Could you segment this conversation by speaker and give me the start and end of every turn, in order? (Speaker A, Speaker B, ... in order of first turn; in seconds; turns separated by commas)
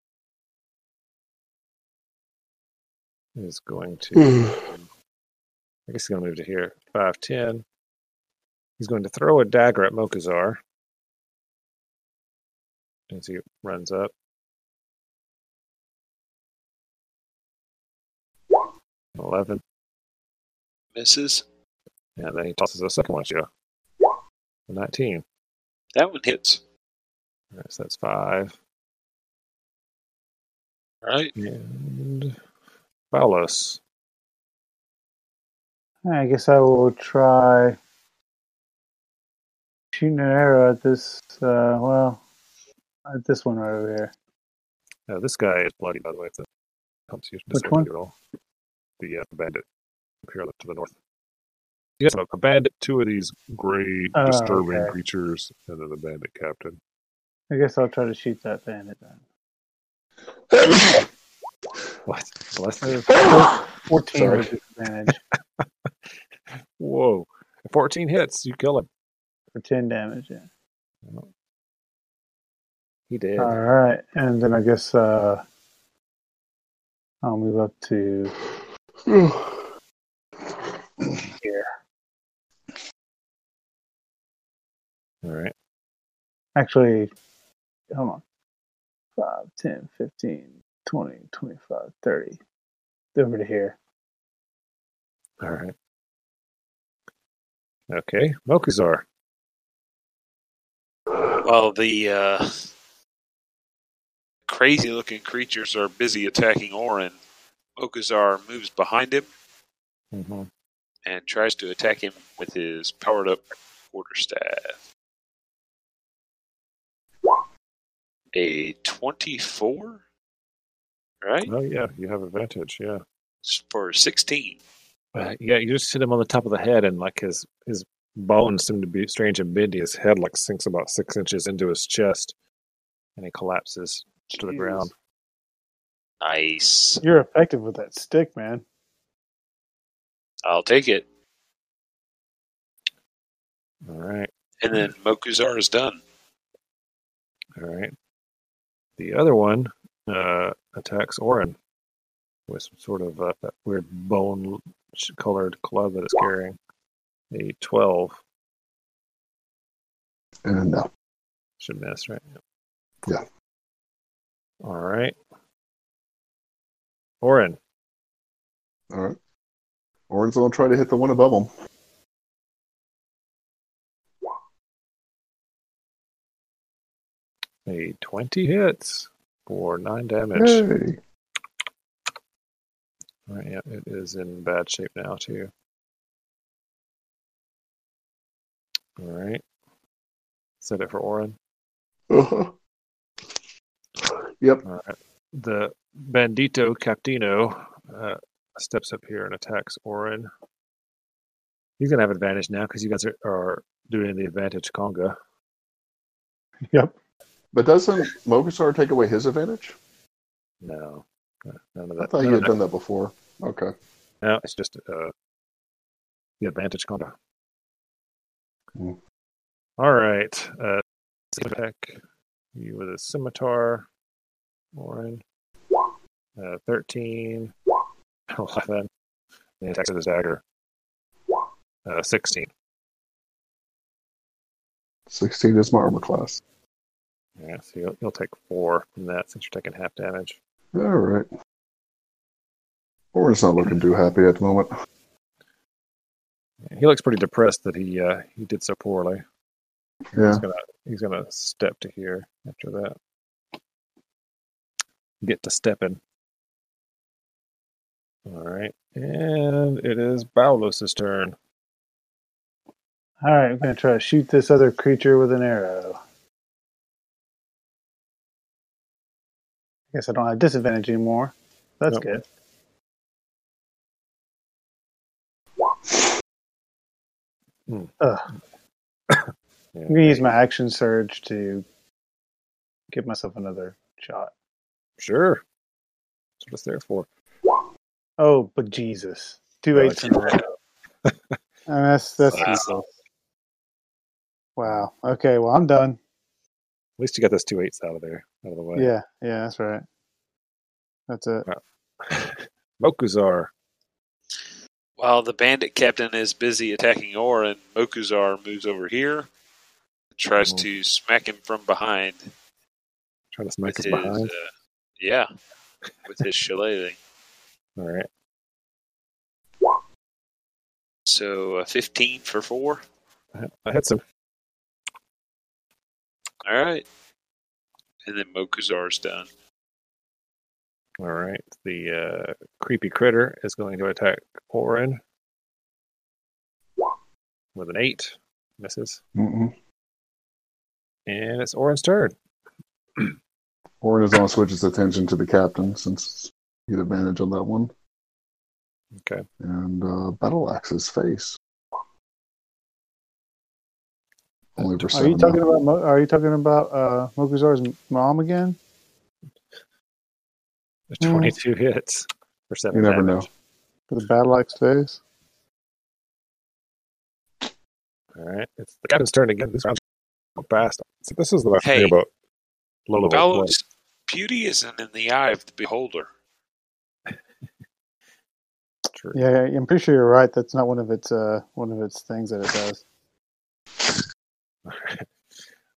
Speaker A: 3.4-4.9, Speaker A: 5.9-7.6, Speaker A: 8.8-10.6, Speaker A: 13.1-14.1, Speaker A: 19.2-19.6, Speaker B: 20.9-21.4, Speaker A: 22.2-23.5, Speaker A: 24.7-25.2, Speaker B: 25.9-26.6, Speaker A: 27.5-28.6, Speaker B: 31.0-31.3, Speaker A: 31.4-32.4, Speaker A: 33.1-33.8, Speaker C: 36.1-37.8, Speaker C: 39.9-42.2, Speaker C: 43.1-44.1, Speaker A: 45.1-46.5, Speaker A: 47.1-48.1, Speaker C: 47.5-47.9, Speaker A: 49.0-49.6, Speaker A: 50.2-50.9, Speaker A: 52.0-56.8, Speaker C: 54.1-55.0, Speaker C: 57.5-59.2, Speaker D: 60.5-61.1, Speaker A: 62.1-63.4, Speaker C: 62.8-65.2, Speaker D: 63.1-63.6, Speaker D: 64.1-64.5, Speaker A: 66.8-68.9, Speaker C: 69.5-70.5, Speaker A: 73.1-73.6, Speaker C: 73.4-75.4, Speaker C: 77.2-78.3, Speaker D: 79.1-79.7, Speaker C: 81.4-81.7, Speaker A: 85.2-85.5, Speaker C: 86.6-87.1, Speaker C: 87.9-88.2, Speaker C: 89.2-92.4, Speaker C: 93.2-93.8, Speaker A: 95.4-95.7, Speaker A: 97.9-99.0, Speaker B: 101.4-102.5, Speaker B: 104.5-107.2, Speaker B: 107.8-109.3, Speaker A: 110.1-110.5, Speaker B: 111.0-114.8, Speaker B: 118.3-120.0, Speaker B: 121.2-121.5, Speaker A: 121.5-123.0, Speaker B: 123.4-124.6, Speaker A: 125.2-132.3, Speaker A: 133.2-134.9, Speaker C: 134.3-134.9, Speaker B: 136.2-137.0, Speaker C: 137.0-138.6, Speaker B: 140.4-141.1, Speaker A: 143.8-144.3, Speaker B: 144.6-146.0, Speaker A: 147.6-147.9, Speaker A: 149.0-151.6, Speaker A: 152.5-156.6, Speaker A: 157.3-158.2, Speaker D: 160.4-160.9, Speaker A: 161.6-162.4, Speaker A: 164.6-165.2, Speaker A: 167.2-167.6, Speaker D: 168.9-169.2, Speaker D: 170.1-171.5, Speaker A: 177.7-180.6, Speaker D: 180.3-181.0, Speaker A: 183.3-185.5, Speaker A: 189.0-189.4, Speaker A: 190.6-191.4, Speaker D: 192.1-192.6, Speaker D: 194.0-194.6, Speaker A: 194.7-200.3, Speaker A: 201.8-205.2, Speaker C: 206.7-207.0, Speaker D: 207.5-209.8, Speaker A: 210.6-212.5, Speaker D: 212.0-213.7, Speaker A: 214.2-215.1, Speaker A: 216.4-217.1, Speaker A: 219.8-222.0, Speaker A: 222.6-223.9, Speaker A: 224.7-225.2, Speaker A: 226.4-227.5, Speaker A: 228.3-228.9, Speaker A: 229.6-230.4, Speaker A: 231.8-232.5, Speaker D: 235.1-236.4, Speaker A: 237.4-240.4, Speaker D: 240.7-241.3, Speaker D: 243.1-244.7, Speaker A: 246.7-249.2, Speaker D: 250.1-250.4, Speaker A: 250.2-252.9, Speaker A: 255.2-256.0, Speaker A: 258.3-261.4, Speaker C: 263.2-266.0, Speaker C: 269.9-272.2, Speaker C: 278.0-278.3, Speaker A: 279.1-280.4, Speaker C: 279.9-281.6, Speaker C: 282.9-284.3, Speaker A: 285.0-285.4, Speaker A: 286.4-287.1, Speaker C: 288.2-290.4, Speaker A: 289.7-290.4, Speaker A: 291.1-291.4, Speaker C: 291.7-292.9, Speaker B: 292.3-292.7, Speaker C: 294.6-296.0, Speaker A: 297.0-298.9, Speaker C: 298.8-299.9, Speaker C: 301.1-301.5, Speaker A: 301.5-303.5, Speaker B: 305.0-309.3, Speaker B: 310.2-312.3, Speaker A: 313.3-314.3, Speaker B: 313.6-315.3, Speaker B: 316.1-317.0, Speaker A: 317.8-318.1, Speaker B: 321.1-322.8, Speaker A: 323.4-324.0, Speaker B: 326.4-326.9, Speaker B: 328.1-329.3, Speaker A: 331.0-335.0, Speaker A: 337.6-339.0, Speaker D: 339.2-339.5, Speaker A: 341.1-342.1, Speaker D: 343.8-347.7, Speaker A: 348.9-349.3, Speaker D: 349.4-351.4, Speaker D: 354.6-355.4, Speaker C: 354.9-358.6, Speaker A: 360.9-363.3, Speaker C: 361.0-361.4, Speaker D: 362.7-363.3, Speaker C: 363.9-365.0, Speaker A: 368.2-369.8, Speaker A: 370.4-372.1, Speaker B: 371.6-371.9, Speaker A: 372.9-373.5, Speaker B: 373.1-376.1, Speaker A: 378.9-379.2, Speaker C: 379.1-382.8, Speaker A: 384.7-385.1